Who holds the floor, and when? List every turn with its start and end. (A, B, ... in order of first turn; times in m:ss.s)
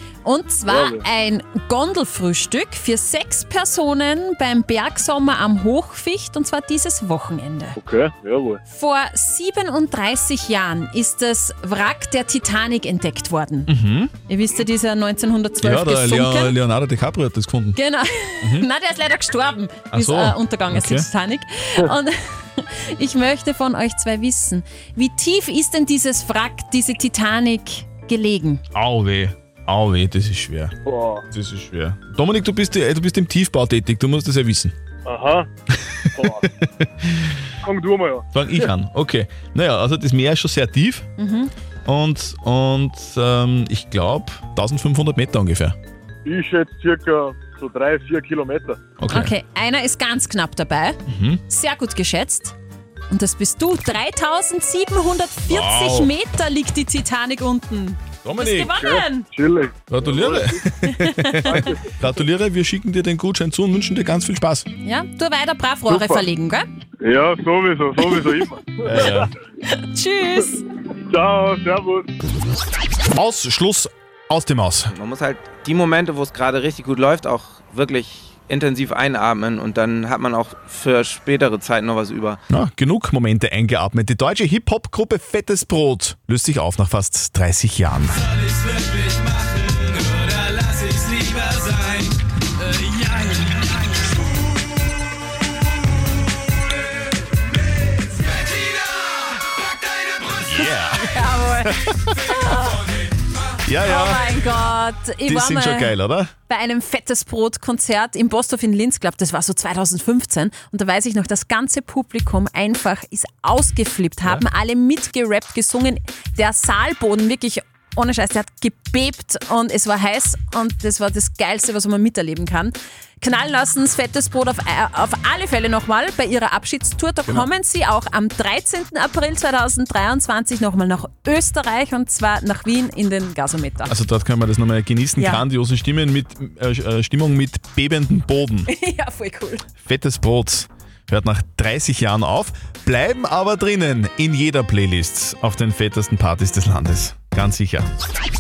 0:00.2-0:07.8 A
0:00.7-0:01.0 B
0:07.8-0:08.6 B
0:08.7-0:13.7 A
0:13.7-0:14.1 C
0:14.2-0:16.5 A
0:15.6-0:17.8 C
0:17.7-0:28.6 A
0:18.4-0:18.7 C
0:19.9-0:21.1 C
0:28.7-0:30.7 C
0:30.8-0:31.2 B
0:31.3-0:34.7 C
0:35.0-0:35.5 B
0:36.2-0:36.4 B
0:36.4-0:37.3 C
0:37.6-0:38.7 B
0:38.3-0:41.0 C
0:41.2-0:41.5 A
0:41.8-0:45.8 C
0:46.2-0:48.8 B
0:49.0-0:49.3 C
0:49.1-0:52.5 A
0:51.1-0:51.4 C
0:53.1-0:59.3 A
0:55.5-0:56.1 C
0:58.2-0:58.7 C
0:58.8-1:00.6 B
0:59.9-1:04.7 C
1:00.9-1:01.6 A
1:01.5-1:01.8 B
1:04.8-1:06.6 A
1:05.9-1:06.3 B
1:07.0-1:09.2 B
1:08.8-1:09.3 C
1:09.7-1:10.6 A
1:11.1-1:12.1 B
1:13.2-1:14.9 C
1:14.9-1:22.4 D
1:22.5-1:28.2 C
1:40.4-1:41.9 C
1:41.0-1:42.8 A
1:43.6-1:44.3 C
1:43.8-1:46.0 A
1:45.3-1:46.3 C
1:46.5-2:13.9 A
2:13.9-2:18.7 C
2:15.2-2:15.4 A
2:18.7-2:19.6 A
2:19.8-2:27.9 C